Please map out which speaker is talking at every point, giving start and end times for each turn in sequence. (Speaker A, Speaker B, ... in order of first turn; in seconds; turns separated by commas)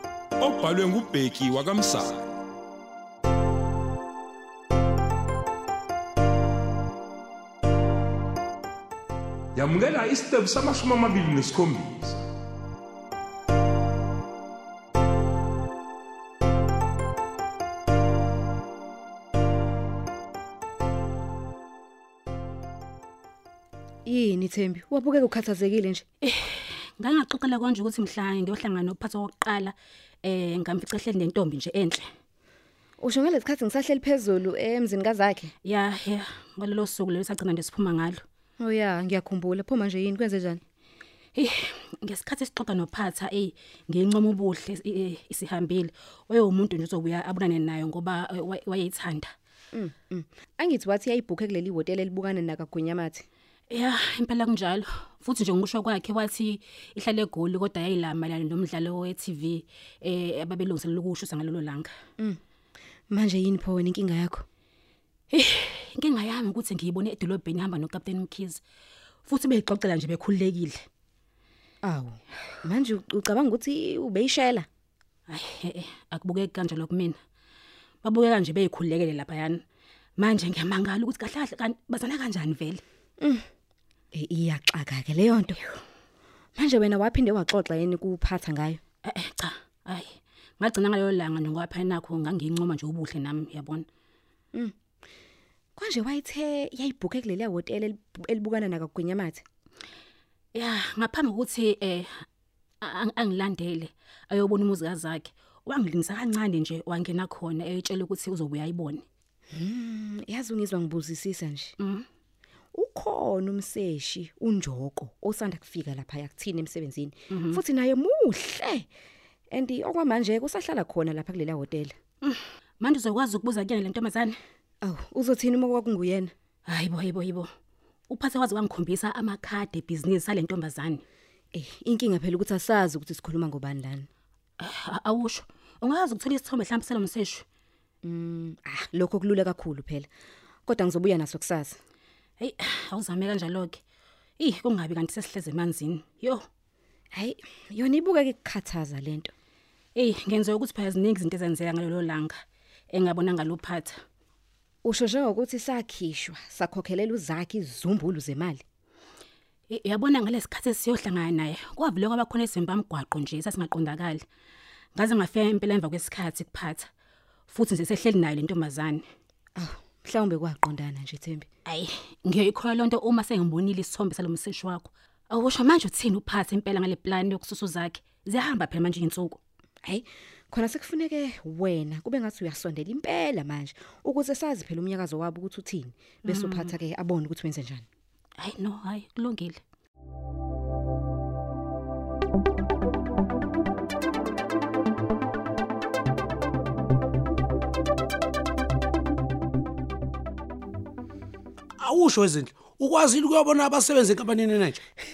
Speaker A: 0.4-2.3, Speaker A: 9.5-12.2, Speaker B: 24.1-26.0, Speaker C: 26.2-32.0, Speaker B: 33.0-35.5, Speaker C: 35.6-38.2, Speaker B: 38.6-40.6, Speaker C: 41.3-49.3, Speaker B: 49.7-53.2, Speaker C: 53.7-61.9, Speaker B: 63.1-64.4, Speaker C: 65.3-68.6, Speaker C: 69.2-70.8, Speaker B: 71.8-74.7, Speaker C: 75.3-77.2, Speaker C: 78.0-79.6, Speaker C: 80.2-82.8, Speaker B: 83.2-83.5, Speaker B: 84.1-85.6, Speaker B: 86.5-88.8, Speaker C: 89.0-93.8, Speaker B: 95.8-99.4, Speaker C: 100.5-102.2, Speaker C: 102.8-109.0, Speaker B: 109.5-111.7, Speaker C: 111.8-112.0, Speaker B: 112.7-118.9, Speaker C: 117.3-117.6, Speaker B: 119.5-121.9, Speaker C: 122.2-124.3, Speaker B: 124.8-126.3, Speaker C: 126.7-127.5, Speaker C: 128.1-131.0, Speaker B: 131.5-134.1, Speaker C: 134.6-137.4, Speaker B: 138.0-140.1, Speaker B: 140.7-141.8, Speaker C: 142.4-143.8, Speaker C: 144.4-146.5, Speaker B: 147.1-149.3, Speaker C: 149.9-152.3, Speaker C: 152.9-153.9, Speaker B: 154.8-158.6, Speaker C: 159.7-164.2, Speaker C: 164.9-166.9, Speaker C: 167.5-169.0, Speaker B: 169.6-171.5, Speaker C: 171.7-179.4, Speaker B: 179.8-187.8, Speaker C: 186.3-186.7, Speaker C: 188.4-189.6, Speaker D: 201.8-204.8